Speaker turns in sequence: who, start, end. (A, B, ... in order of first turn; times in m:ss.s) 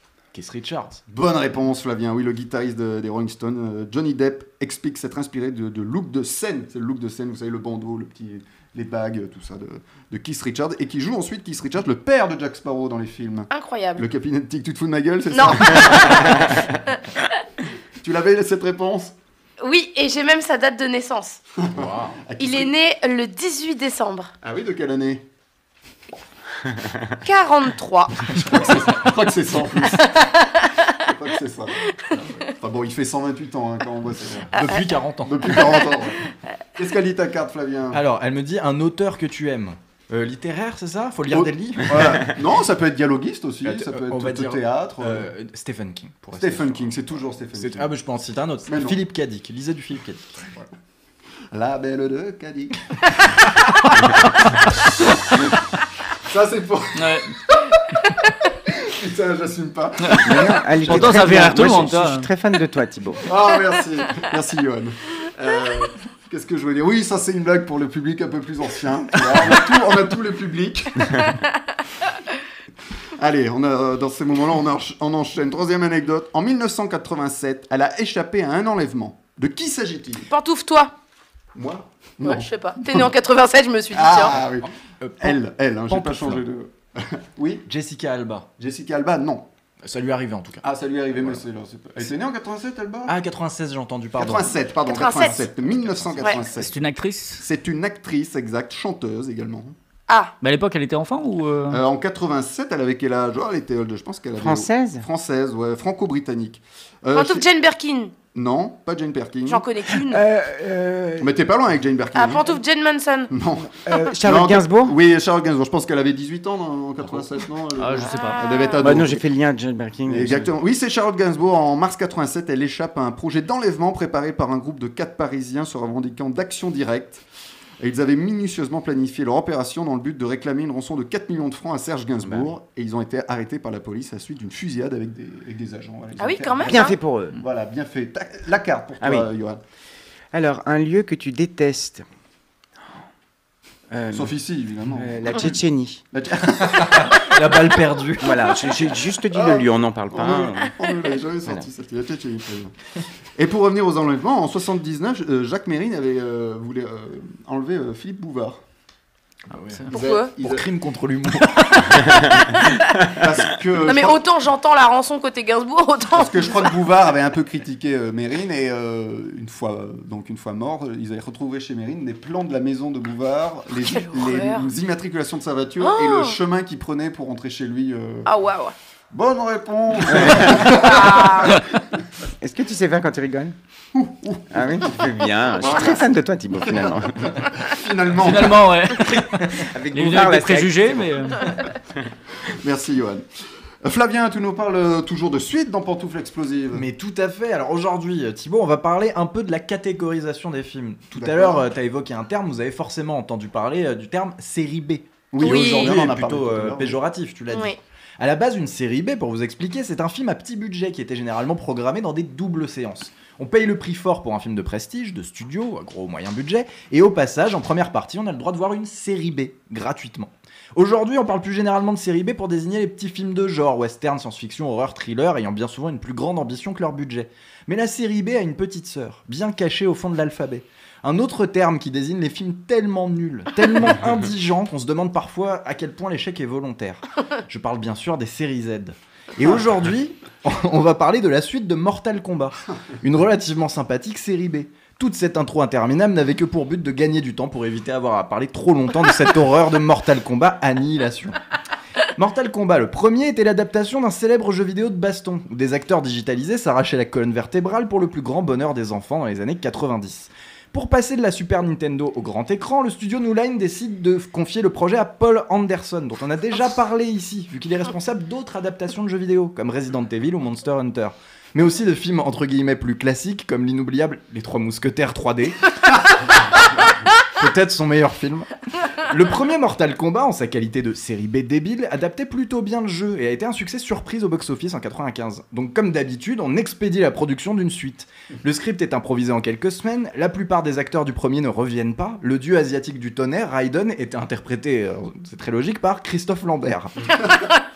0:00.3-0:01.0 A
0:01.1-0:16.4 B
0:13.5-0:14.1 C
0:15.3-0:16.4 C
0:18.0-0:19.1 B
0:19.6-0:21.4 C
0:21.6-0:22.7 B
0:21.7-0:22.2 A
0:22.4-0:24.3 C
0:24.4-0:25.2 B
0:27.2-0:28.3 C
0:28.3-0:30.1 B
0:29.9-0:31.0 C
0:31.0-0:31.8 B
0:32.1-0:32.5 A
0:32.6-0:34.6 B
0:34.5-0:35.8 A
0:35.2-0:36.2 B
0:36.7-0:38.0 B
0:37.9-0:42.3 A
0:41.3-0:45.3 B
0:43.6-0:50.6 A
0:46.4-0:47.9 B
0:48.7-0:49.0 B
0:51.5-0:52.8 B
0:56.2-0:57.3 B
0:57.0-0:57.3 D
0:58.7-1:01.8 B
1:00.1-1:00.3 D
1:00.2-1:03.2 E
1:00.8-1:02.3 D
1:03.3-1:11.3 B
1:13.2-1:20.3 B
1:20.3-1:20.9 C
1:21.6-1:23.1 B
1:22.2-1:24.4 C
1:23.9-1:27.7 B
1:24.3-1:26.4 A
1:27.7-1:28.5 A
1:28.6-1:29.5 B
1:29.8-1:30.6 A
1:30.6-1:33.2 B
1:33.1-1:36.5 A
1:34.2-1:36.7 B
1:34.9-1:35.4 C
1:36.5-1:37.4 D
1:37.4-1:39.7 B
1:40.1-1:40.3 C
1:40.4-1:41.8 D
1:41.7-1:47.4 B
1:44.4-1:45.1 E
1:47.1-1:48.1 C
1:48.3-1:49.7 B
1:49.5-1:50.2 C
1:50.0-1:51.4 E
1:51.2-1:52.6 B
1:52.1-1:53.3 C
1:53.3-1:59.2 B
1:53.8-1:55.0 E
1:57.8-1:58.4 D
1:58.2-1:58.6 C
1:58.8-2:00.5 E
2:00.1-2:07.2 B
2:07.8-2:19.6 B
2:12.2-2:12.5 E
2:16.2-2:17.0 C
2:16.6-2:17.4 E
2:19.0-2:19.3 E
2:20.3-2:22.0 E
2:23.9-2:24.3 E
2:24.1-2:25.5 B
2:25.0-2:26.0 E
2:26.1-2:27.4 B
2:26.8-2:28.4 A
2:28.2-2:30.8 E
2:29.3-2:32.7 B
2:33.4-2:38.6 B
2:39.5-2:42.3 A
2:39.9-2:40.7 B
2:39.9-2:40.3 C
2:43.0-2:44.2 B
2:43.8-2:46.8 C
2:46.1-2:58.3 B
2:53.8-2:54.7 C
2:55.8-2:56.4 C
2:58.3-2:58.7 C
2:59.1-3:01.7 B
3:00.1-3:00.8 E
3:00.7-3:01.5 C
3:02.4-3:03.6 E
3:03.9-3:08.7 B
3:04.5-3:07.5 E
3:08.2-3:11.6 D
3:09.1-3:11.4 E
3:12.4-3:13.3 B
3:13.8-3:16.9 B
3:16.7-4:11.4 A
3:21.1-3:21.6 B
3:25.3-3:27.0 B
3:25.4-3:26.0 C
3:27.5-3:27.8 C
4:12.2-4:36.1 A
4:37.2-4:57.1 A